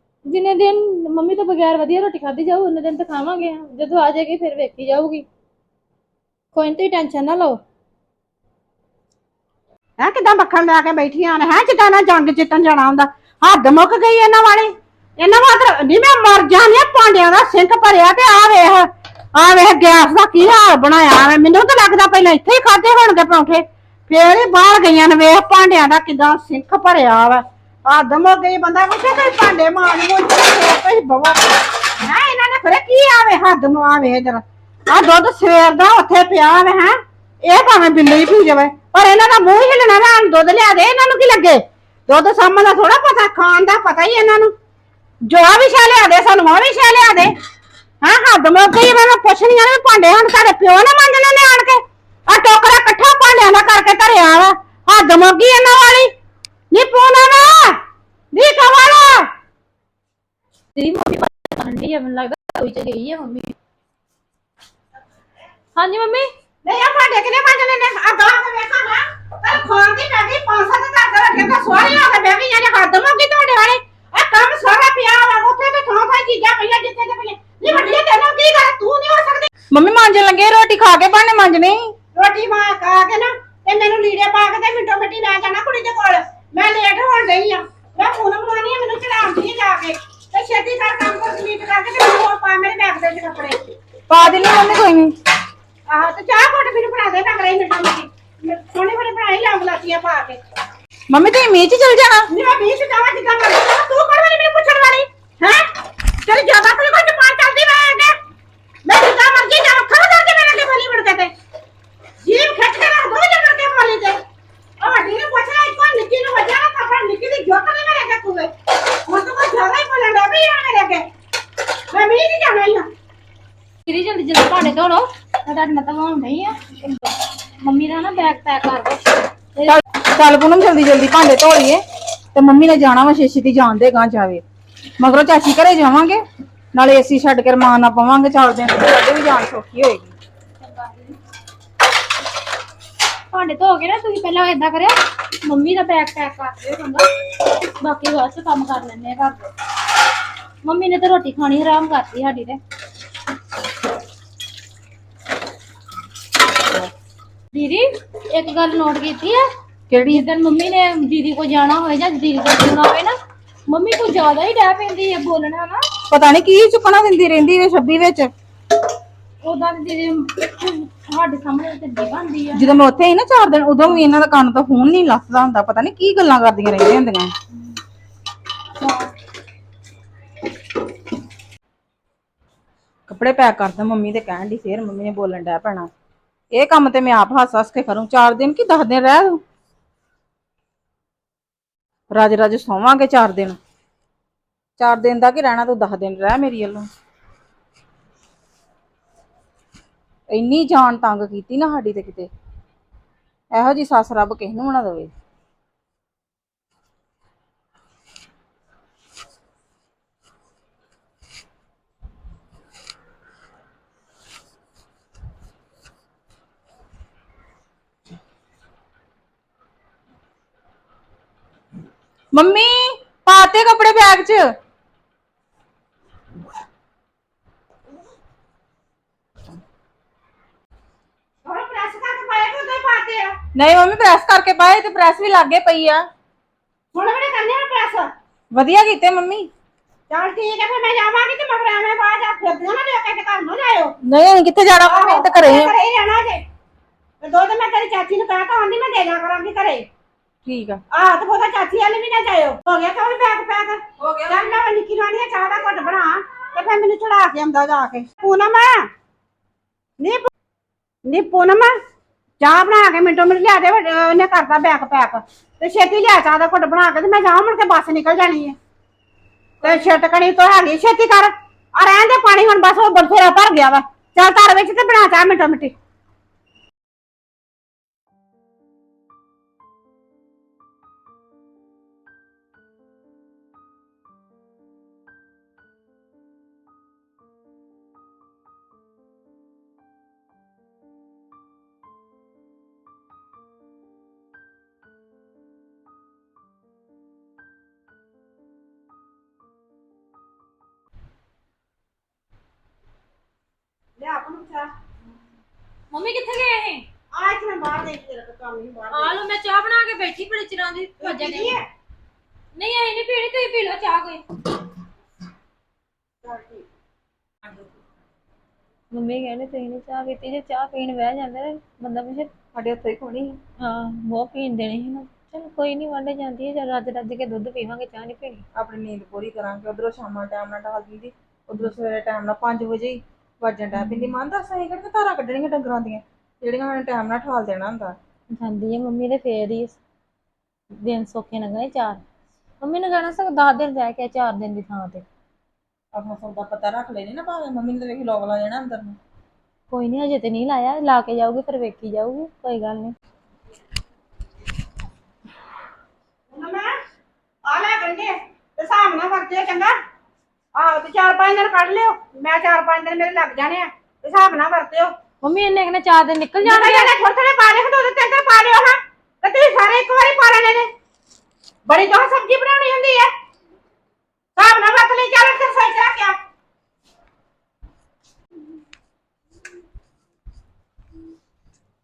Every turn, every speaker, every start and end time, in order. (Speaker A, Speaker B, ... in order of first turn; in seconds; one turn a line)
Speaker A: 0.3-5.2
Speaker A: 6.5-7.6
Speaker B: 10.0-44.5
Speaker B: 45.2-47.3
Speaker B: 48.0-56.1
Speaker B: 56.7-57.8
Speaker B: 58.3-59.3
Speaker A: 60.8-63.5
Speaker A: 65.8-66.3
Speaker B: 66.7-79.5
Speaker C: 79.7-81.9
Speaker B: 82.2-93.6
Speaker C: 94.1-95.1
Speaker B: 94.2-94.6
Speaker B: 95.9-100.4
Speaker C: 101.1-102.3
Speaker B: 102.3-105.7
Speaker B: 106.2-108.2
Speaker B: 108.8-111.3
Speaker B: 112.2-114.2
Speaker B: 114.8-118.5
Speaker B: 119.1-121.1
Speaker B: 121.9-122.9
Speaker A: 123.9-129.8
Speaker C: 129.7-131.8
Speaker C: 132.3-134.4
Speaker C: 135.0-136.2
Speaker C: 136.8-140.1
Speaker A: 140.6-141.2
Speaker A: 143.3-149.5
Speaker A: 150.6-152.6
Speaker A: 157.5-159.4
Speaker C: 159.9-160.2
Speaker A: 160.1-163.2
Speaker A: 163.7-165.8
Speaker C: 166.1-168.3
Speaker A: 169.4-172.7
Speaker C: 172.6-177.3
Speaker C: 183.1-185.9
Speaker C: 186.5-189.4
Speaker C: 192.1-193.6
Speaker C: 194.8-196.9
Speaker C: 200.3-202.3
Speaker C: 203.5-205.1
Speaker C: 222.3-224.5
Speaker B: 231.5-233.4
Speaker C: 233.6-236.0
Speaker B: 236.9-238.1
Speaker C: 238.5-239.5
Speaker B: 240.1-244.0
Speaker C: 244.0-245.7
Speaker B: 244.8-246.4
Speaker B: 247.2-249.9
Speaker C: 250.4-250.8
Speaker B: 250.9-258.9
Speaker C: 254.0-254.4
Speaker B: 260.0-260.3
Speaker B: 261.1-261.7
Speaker B: 262.4-268.6
Speaker B: 269.6-275.7
Speaker B: 304.0-304.7
Speaker A: 305.9-306.9
Speaker B: 307.1-309.2
Speaker A: 308.9-311.6
Speaker B: 311.0-311.6
Speaker A: 312.6-314.2
Speaker B: 316.2-316.6
Speaker A: 318.9-322.3
Speaker C: 322.5-323.4
Speaker A: 323.6-328.4
Speaker C: 328.6-338.0
Speaker A: 333.8-334.1
Speaker A: 338.4-339.8
Speaker A: 340.7-342.0
Speaker A: 342.6-345.1
Speaker C: 345.9-349.0
Speaker A: 349.7-352.9
Speaker B: 356.3-356.7
Speaker B: 357.5-359.8
Speaker B: 360.6-365.0
Speaker A: 365.2-366.9
Speaker B: 366.4-370.7
Speaker B: 371.7-373.1
Speaker B: 374.4-376.2